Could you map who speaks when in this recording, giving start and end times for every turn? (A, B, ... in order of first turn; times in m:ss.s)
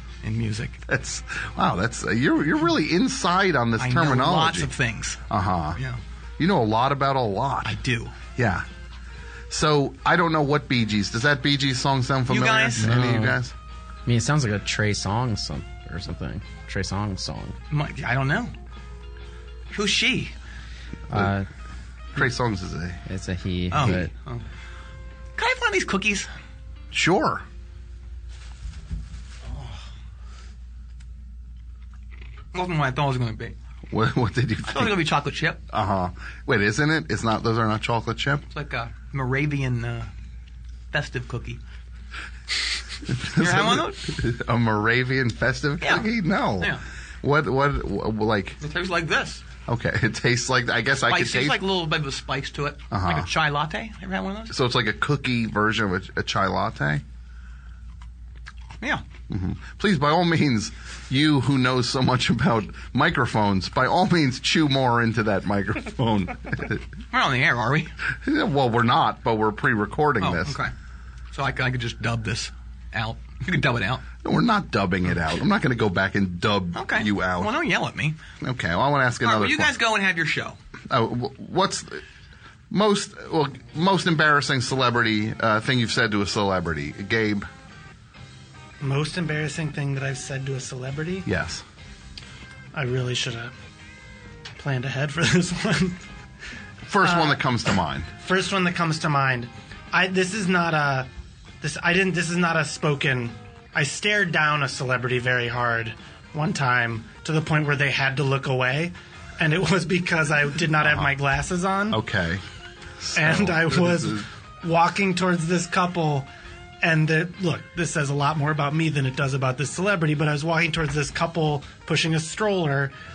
0:00.2-0:00.8 A
0:00.9-0:04.7 B
0:03.8-0:05.2 A
0:05.3-0:05.8 B
0:06.4-0:07.8 B
0:07.6-0:08.1 A
0:08.4-0:08.7 B
0:09.5-0:13.6 B
0:12.3-0:12.9 A
0:12.8-0:13.4 C
0:14.1-0:17.6 C
0:17.7-0:18.5 A
0:19.7-0:20.4 A
0:21.1-0:21.5 C
0:22.1-0:23.0 B
0:23.1-0:24.1 C
0:23.7-0:24.4 A
0:25.4-0:26.3 A
0:26.9-0:27.4 B
0:32.5-0:33.6 A
0:33.9-0:35.0 B
0:34.7-0:35.6 A
0:35.7-0:38.5 B
0:38.5-0:40.1 A
0:40.9-0:41.6 A
0:43.1-0:48.6 B
0:43.3-0:44.0 A
0:45.8-0:46.8 A
0:48.6-0:49.4 A
0:49.7-0:51.6 B
0:51.1-0:54.6 A
0:52.9-0:53.3 B
0:54.5-0:57.0 B
0:59.3-1:06.8 B
1:07.1-1:07.9 A
1:08.2-1:10.6 B
1:10.2-1:10.7 A
1:11.3-1:14.1 A
1:14.2-1:17.6 B
1:16.7-1:18.2 A
1:18.4-1:19.7 B
1:19.2-1:20.6 A
1:20.9-1:22.0 B
1:22.7-1:27.5 B
1:28.8-1:31.3 D
1:31.3-1:31.6 B
1:32.7-1:33.5 D
1:34.6-1:36.0 D
1:36.9-1:38.1 B
1:37.0-1:37.4 D
1:38.2-1:41.1 D
1:41.6-1:52.0 D
1:50.8-1:51.1 B
1:51.9-1:52.4 B
1:53.0-1:54.3 B
1:53.1-1:56.3 D
1:56.8-2:02.9 D